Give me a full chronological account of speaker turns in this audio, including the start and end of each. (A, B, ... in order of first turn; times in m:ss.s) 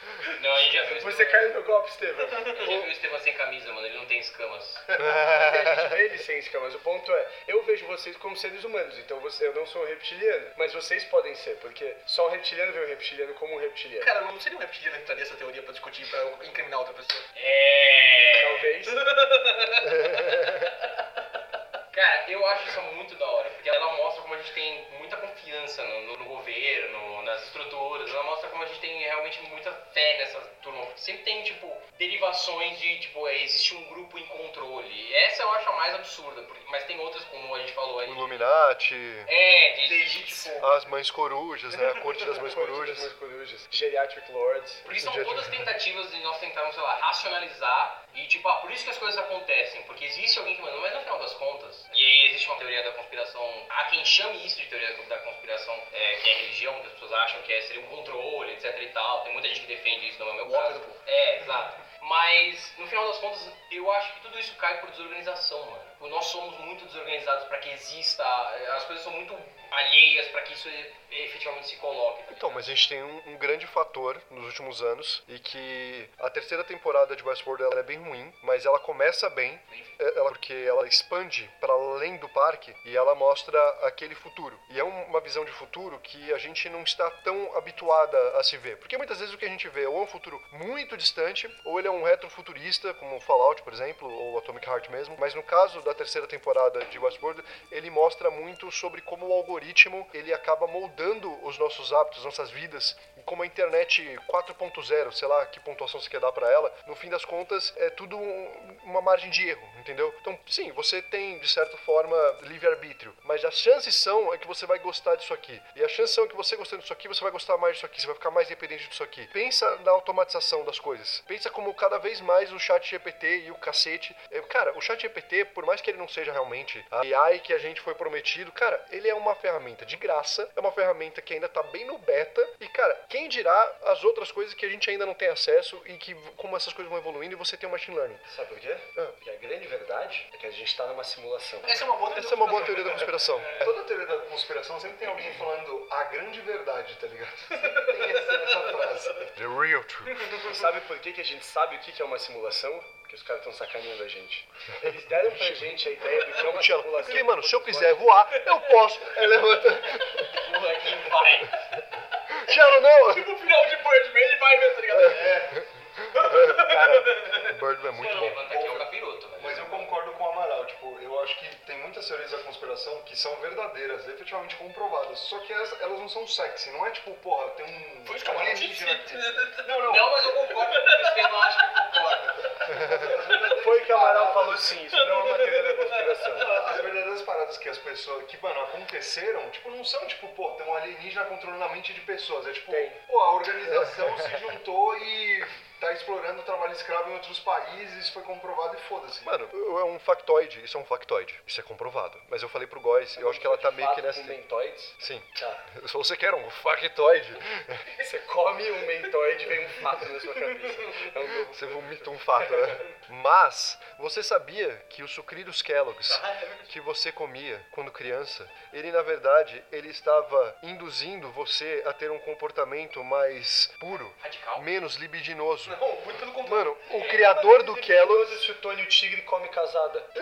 0:00.4-0:01.5 A
0:01.0-0:02.5 B
0:02.4-0:02.7 C
0:02.5-0:04.8 A
0:05.0-0:06.0 D
0:05.2-0:14.1 B
0:14.0-0:17.3 C
0:17.3-0:18.7 A
0:18.4-0:19.0 B
0:18.9-0:20.0 C
0:20.0-0:20.5 D
0:20.0-0:20.6 A
0:21.9-0:38.2 A
0:38.0-0:39.3 D
0:39.2-0:40.6 A
0:39.8-0:40.8 C
0:40.6-0:43.1 D
0:42.3-0:44.8 B
0:44.8-1:12.7 A
0:44.9-0:45.7 D
1:00.4-1:01.0 C
1:12.3-2:18.2 D
2:18.3-2:21.8 B
2:21.6-2:23.5 C
2:22.1-2:23.8 D
2:23.6-2:29.3 E
2:27.5-2:28.9 C
2:29.4-2:30.4 D
2:30.1-2:30.4 C
2:30.4-2:38.1 B
2:34.8-2:40.3 D
2:40.4-2:41.5 A
2:40.8-2:41.4 C
2:42.3-2:43.3 D
2:43.0-2:45.4 C
2:44.9-2:45.6 D
2:45.1-2:45.6 E
2:46.1-2:48.4 D
2:46.1-2:47.5 C
2:47.9-2:49.8 A
2:48.5-3:00.1 E
2:58.0-3:02.2 C
2:59.6-3:02.5 A
3:02.6-3:04.7 E
3:02.8-3:03.1 D
3:03.0-3:03.5 C
3:03.5-3:06.5 B
3:04.9-3:06.8 C
3:06.4-3:19.3 E
3:12.7-3:13.0 B
3:13.7-3:14.2 D
3:19.2-3:24.4 D
3:23.2-3:25.6 B
3:25.0-3:27.8 D
3:28.0-3:32.5 B
3:31.5-3:45.8 D
3:36.1-3:36.7 C
3:44.2-3:44.6 A
3:45.6-3:47.5 C
3:46.4-3:48.4 D
3:47.4-3:50.1 B